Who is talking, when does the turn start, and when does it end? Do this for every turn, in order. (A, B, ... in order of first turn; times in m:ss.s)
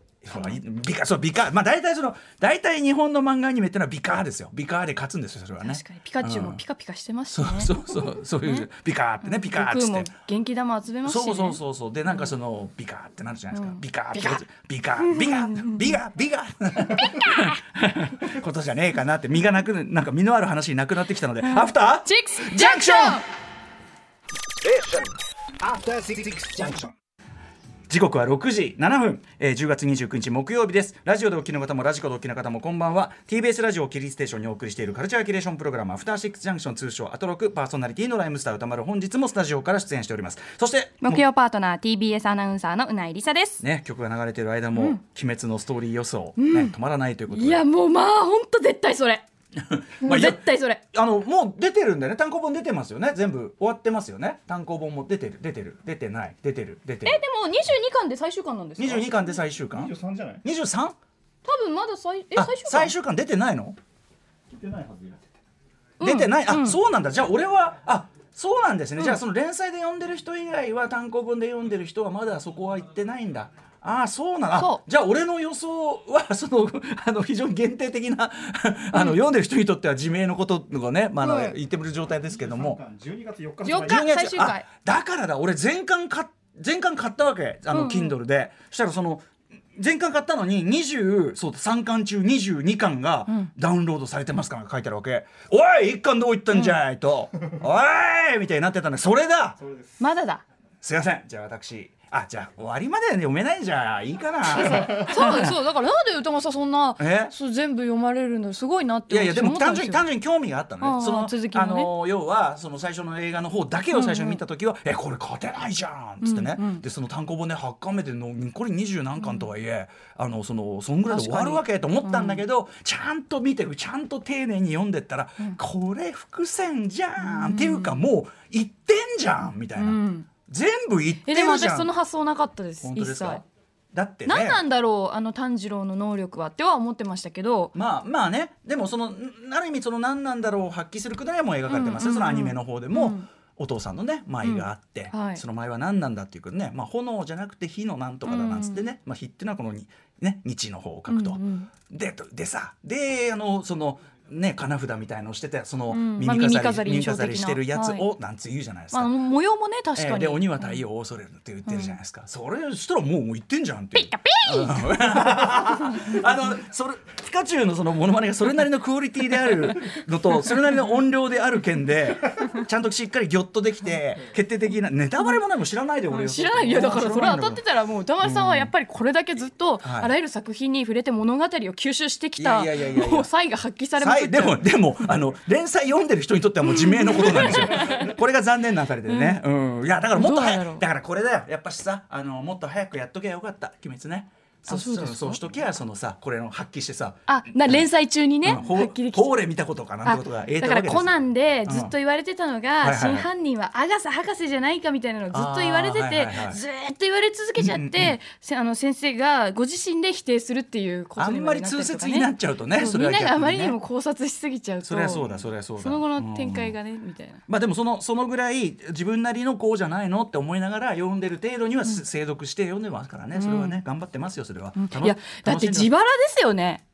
0:00.2-0:06.6 A
0:05.6-0:08.7 B
0:07.3-0:10.1 A
0:09.2-0:12.3 B
0:11.0-0:23.2 A
0:13.5-0:14.4 B
0:15.0-0:15.9 B
0:17.0-0:17.5 B
0:21.4-0:23.2 B
0:25.6-0:26.9 C
0:27.9-0:41.2 A
0:41.0-0:43.6 B
0:43.6-0:47.6 A
0:44.7-0:45.0 B
0:46.4-0:46.7 B
0:47.3-0:49.2 B
0:49.6-0:57.2 A
0:50.0-0:50.8 B
0:57.0-0:59.2 B
0:58.8-1:00.9 A
1:01.4-1:02.9 B
1:02.3-1:03.8 A
1:04.8-1:05.1 C
1:06.0-1:06.8 B
1:06.0-1:22.8 A
1:14.5-1:14.8 B
1:18.9-1:19.2 B
1:21.2-1:21.5 B
1:23.0-1:23.6 C
1:23.6-1:24.7 B
1:23.7-1:29.2 A
1:27.7-1:28.2 B
1:29.8-1:39.6 A
1:36.5-1:36.8 B
1:40.0-1:40.4 B
1:40.8-1:45.6 A
1:44.5-1:50.0 B
1:47.0-1:47.3 A
1:49.1-2:11.9 A
1:50.8-1:51.9 B
1:53.9-1:54.4 B
1:56.2-1:56.8 B
1:59.2-1:59.4 B
2:01.1-2:02.4 B
2:07.2-2:08.0 B
2:09.8-2:10.3 B
2:11.2-2:13.4 B
2:12.8-2:14.6 A
2:14.2-2:17.7 B
2:17.8-2:39.1 A
2:21.7-2:23.3 B
2:24.4-2:25.4 B
2:28.2-2:28.8 B
2:31.1-2:31.7 B
2:35.9-2:38.1 B
2:38.9-2:40.8 B
2:40.0-2:57.6 A
2:41.6-2:41.9 B
2:43.9-2:44.9 B
2:56.1-3:04.7 B
2:58.2-2:58.7 A
2:59.8-3:00.1 A
3:02.4-3:03.3 A
3:04.0-3:17.9 A
3:06.6-3:08.0 B
3:09.0-3:09.4 B
3:10.1-3:10.8 B
3:14.7-3:15.4 B
3:17.3-3:19.4 B
3:18.4-3:21.9 A
3:20.0-3:37.4 B
3:22.8-3:23.3 A
3:25.3-3:26.6 A
3:27.6-3:28.2 A
3:31.2-3:33.8 A
3:34.8-3:36.8 A
3:37.5-3:45.9 A
3:43.3-3:43.8 B
3:44.8-3:46.8 B